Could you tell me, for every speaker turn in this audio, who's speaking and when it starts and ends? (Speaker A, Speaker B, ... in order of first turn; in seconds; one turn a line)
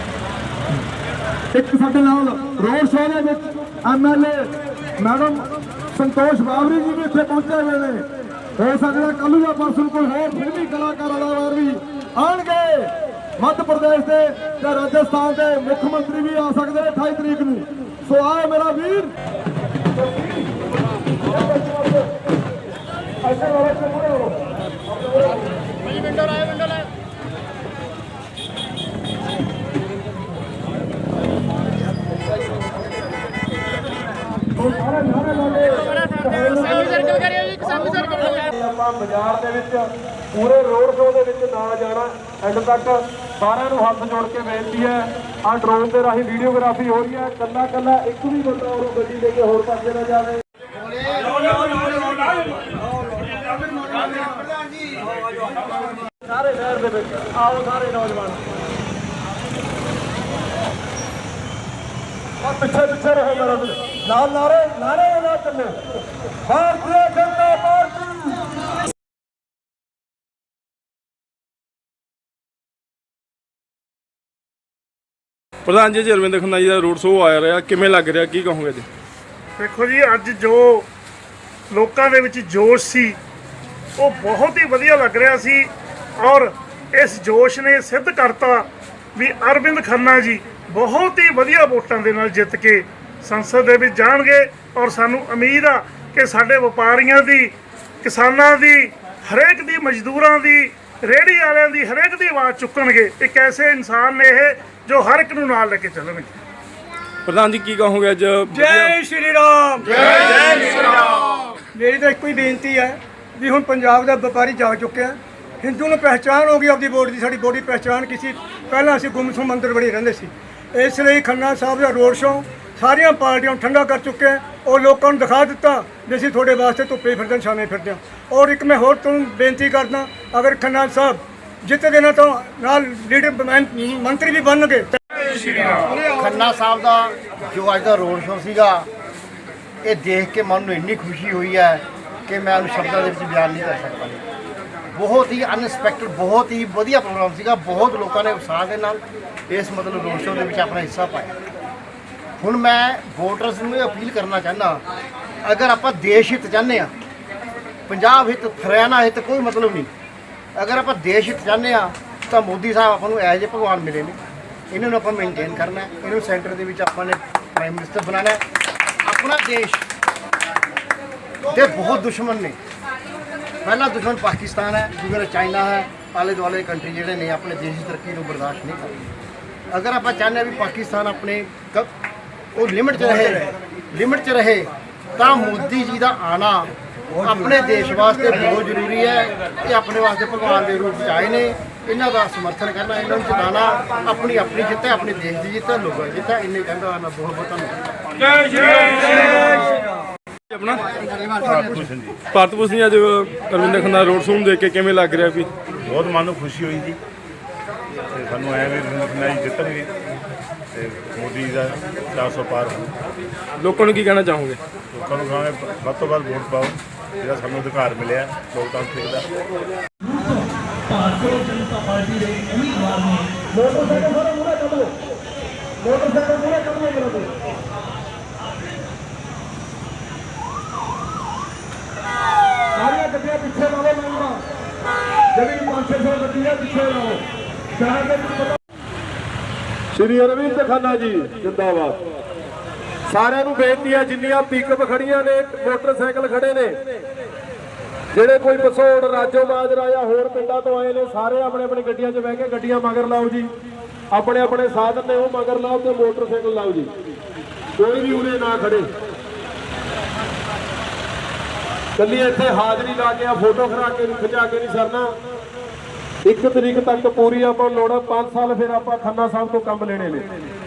Speaker A: 1.5-5.4
Speaker A: 5.9-8.1
Speaker A: 8.6-19.1
Speaker A: 20.0-20.5
Speaker A: 21.4-22.1
Speaker A: 23.2-24.4
Speaker A: 24.9-25.3
Speaker A: 34.5-50.4
Speaker B: 50.7-52.4
Speaker B: 53.5-54.7
Speaker A: 56.2-58.3
Speaker A: 62.4-65.8
Speaker A: 66.5-68.2
Speaker C: 75.7-78.8
Speaker D: 79.6-80.8
Speaker D: 81.7-83.2
Speaker D: 84.0-85.7
Speaker D: 86.2-88.7
Speaker D: 89.2-97.5
Speaker D: 98.0-106.3
Speaker C: 107.3-109.0
Speaker E: 108.5-110.6
Speaker E: 111.7-134.9
Speaker B: 136.1-138.9
Speaker B: 139.8-144.2
Speaker B: 144.9-151.3
Speaker B: 152.4-154.8
Speaker B: 155.4-156.9
Speaker B: 157.9-159.9
Speaker B: 160.5-164.2
Speaker B: 164.7-168.4
Speaker B: 169.0-169.8
Speaker B: 171.4-172.6
Speaker B: 173.6-179.0
Speaker B: 179.7-181.9
Speaker B: 182.5-197.7
Speaker F: 201.5-202.1
Speaker C: 202.3-205.5
Speaker F: 205.9-207.0
Speaker F: 208.1-209.9
Speaker F: 210.7-212.9
Speaker C: 213.6-214.6
Speaker F: 215.0-219.3
Speaker A: 220.9-224.9
Speaker A: 225.8-227.3
Speaker A: 232.8-234.4
Speaker A: 235.3-237.2
Speaker A: 237.8-238.6
Speaker A: 239.9-242.0
Speaker A: 243.1-246.8
Speaker A: 248.1-253.5
Speaker A: 254.1-256.9
Speaker A: 257.8-258.9
Speaker A: 262.0-265.1
Speaker A: 266.2-270.2